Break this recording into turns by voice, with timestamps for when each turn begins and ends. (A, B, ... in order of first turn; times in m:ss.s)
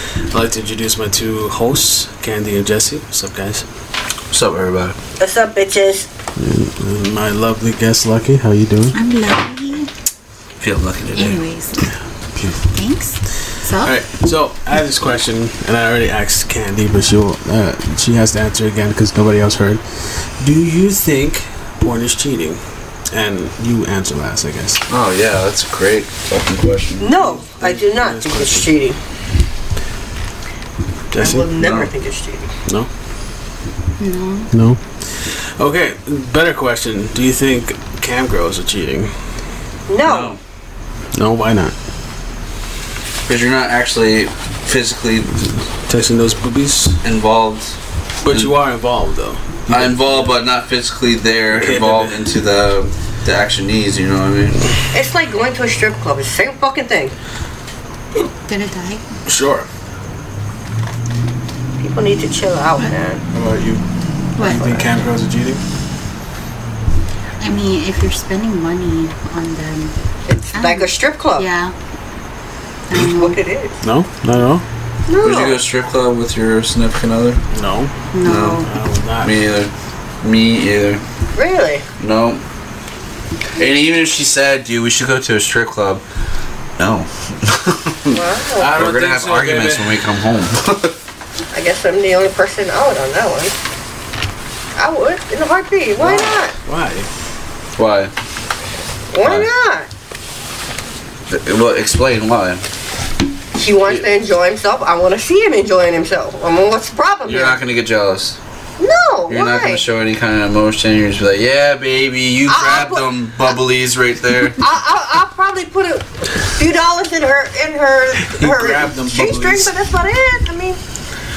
0:00.3-0:03.6 A
0:04.3-0:05.0 B
0:05.2-0:06.1 C
0:06.4-0:09.0 A
0:08.9-0:09.9 D
0:10.6-0:11.4 B
0:11.1-0:11.8 D
0:12.3-0:12.6 A
0:12.7-0:13.9 D
0:13.8-0:22.6 A
0:23.1-0:24.8 A
0:24.9-0:27.2 B
0:27.0-0:29.0 C
0:27.2-0:28.7 A
0:31.1-0:31.5 A
0:31.1-0:32.5 C
0:31.6-0:31.9 B
0:34.0-0:34.5 D
0:34.5-0:34.8 A
0:35.6-0:39.1 A
0:39.9-0:40.3 C
0:40.0-0:40.4 B
0:41.1-0:41.7 A
0:43.3-0:45.4 B
0:45.9-0:47.0 A
0:47.0-0:47.8 B
0:48.2-0:50.3 A
0:48.3-0:48.5 B
0:49.7-0:54.6 B
0:51.5-0:52.2 A
0:54.9-0:57.1 C
0:58.4-0:59.0 D
0:59.2-0:59.7 A
1:01.8-1:03.2 C
1:03.3-1:03.8 A
1:04.4-1:04.8 D
1:04.4-1:05.6 A
1:07.4-1:09.9 D
1:10.3-1:11.4 C
1:10.5-1:11.7 D
1:12.9-1:13.4 D
1:12.9-1:13.8 C
1:13.8-1:14.6 A
1:15.1-1:15.6 C
1:15.2-1:17.4 B
1:17.5-1:17.9 A
1:18.1-1:18.7 D
1:18.2-1:18.6 B
1:18.6-1:19.3 A
1:19.2-1:21.0 B
1:21.3-1:21.8 C
1:22.0-1:22.4 B
1:23.6-1:26.0 B
1:26.8-1:31.0 B
1:28.1-1:28.7 C
1:28.6-1:29.9 A
1:31.5-1:33.6 C
1:34.8-1:36.5 C
1:36.0-1:37.1 A
1:37.8-1:38.1 B
1:39.1-1:39.9 C
1:39.2-1:39.5 B
1:41.3-1:42.6 B
1:43.5-1:47.6 C
1:47.2-1:48.4 B
1:48.8-1:49.8 C
1:49.3-1:54.6 B
1:52.5-1:53.1 C
1:54.6-2:00.8 C
1:58.2-1:59.7 A